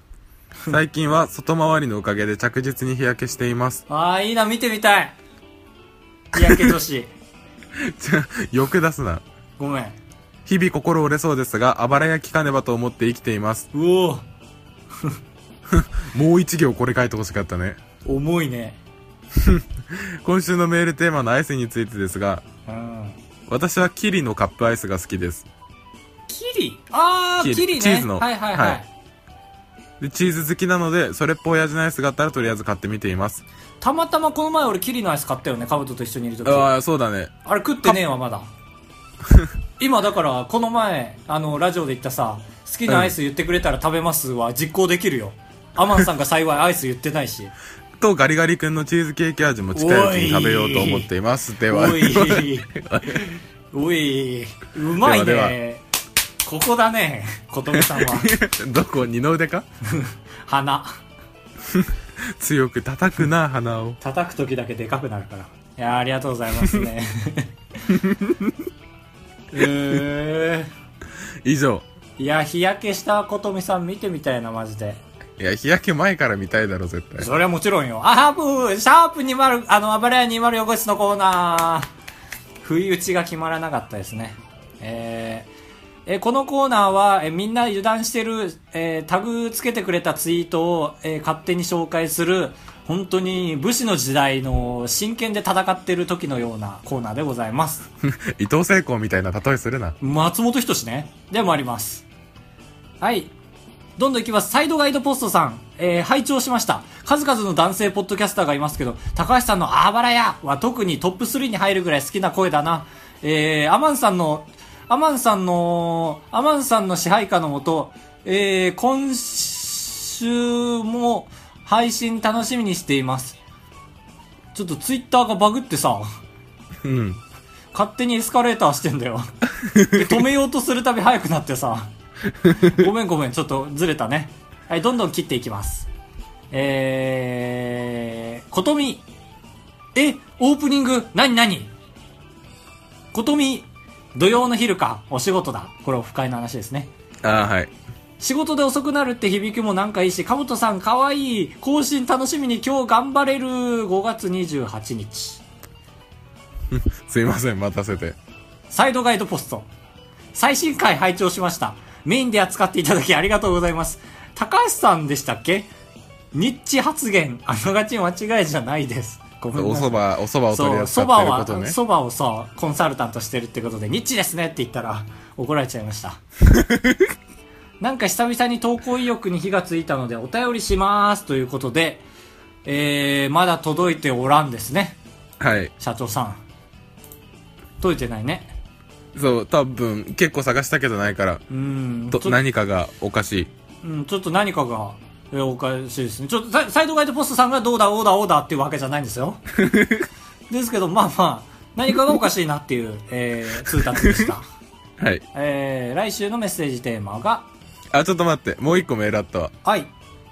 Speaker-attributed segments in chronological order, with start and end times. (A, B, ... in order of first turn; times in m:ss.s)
0:00.7-0:03.8 A
0:03.9-0:05.1 B
0:06.4-0:07.1 B
0:06.4-0:06.7 A
0:07.8-0:09.2 A
0:09.6-0:10.0 B
0:10.4-0:13.7 A
0:13.7-0:14.2 B
0:15.7-0:17.8 A
0:18.0-0:18.8 B
0:19.3-0:22.4 A
0:22.7-0:23.2 B
0:23.5-0:25.4 A
0:26.3-0:28.9 B
0:27.4-0:28.8 A
0:30.0-0:33.4 A
0:33.8-0:36.7 B
0:36.4-0:37.3 A
0:37.4-0:38.5 B
0:39.8-0:47.5 B
0:42.9-0:43.1 A
0:48.0-0:53.4 A
0:49.7-0:51.1 B
0:51.7-0:55.8 B
0:55.0-0:55.6 A
0:56.4-0:58.3 B
0:57.8-0:59.6 A
0:59.9-1:01.0 B
1:01.7-1:04.0 A
1:04.0-1:07.5 B
1:07.9-1:08.5 A
1:09.5-1:10.7 B
1:11.4-1:11.8 A
1:12.2-1:15.0 B
1:15.4-1:17.3 A
1:17.2-1:21.9 B
1:22.6-1:25.5 B
1:26.1-1:37.9 B
1:38.0-1:40.0 A
1:40.0-1:42.0 B
1:43.0-1:43.3 B
1:44.0-2:03.4 B
2:04.6-2:06.1 B
2:06.8-2:07.2 A
2:07.7-2:09.3 B
2:09.6-2:10.2 A
2:09.9-2:11.9 B
2:12.6-2:15.9 B
2:16.5-2:19.0 B
2:19.9-2:21.7 B
2:23.1-2:26.9 B
2:27.2-2:27.7 A
2:28.2-2:35.4 B
2:36.7-2:38.2 A
2:38.7-2:39.7 B
2:40.3-2:45.7 B
2:46.3-2:50.0 B
2:49.5-2:51.8 A
2:50.5-2:56.2 B
2:56.5-2:57.0 A
2:57.8-3:02.0 B
3:02.6-3:05.0 B
3:05.4-3:05.7 A
3:05.8-3:06.4 B
3:07.8-3:08.6 B
3:09.1-3:11.4 A
3:11.5-3:12.4 B
3:12.1-3:13.5 A
3:13.8-3:19.4 B
3:19.6-3:20.1 A
3:20.5-3:24.4 B
3:23.9-3:24.3 A
3:25.0-3:25.2 A
3:25.3-3:27.5 B
3:27.9-3:29.5 A
3:29.6-3:29.9 B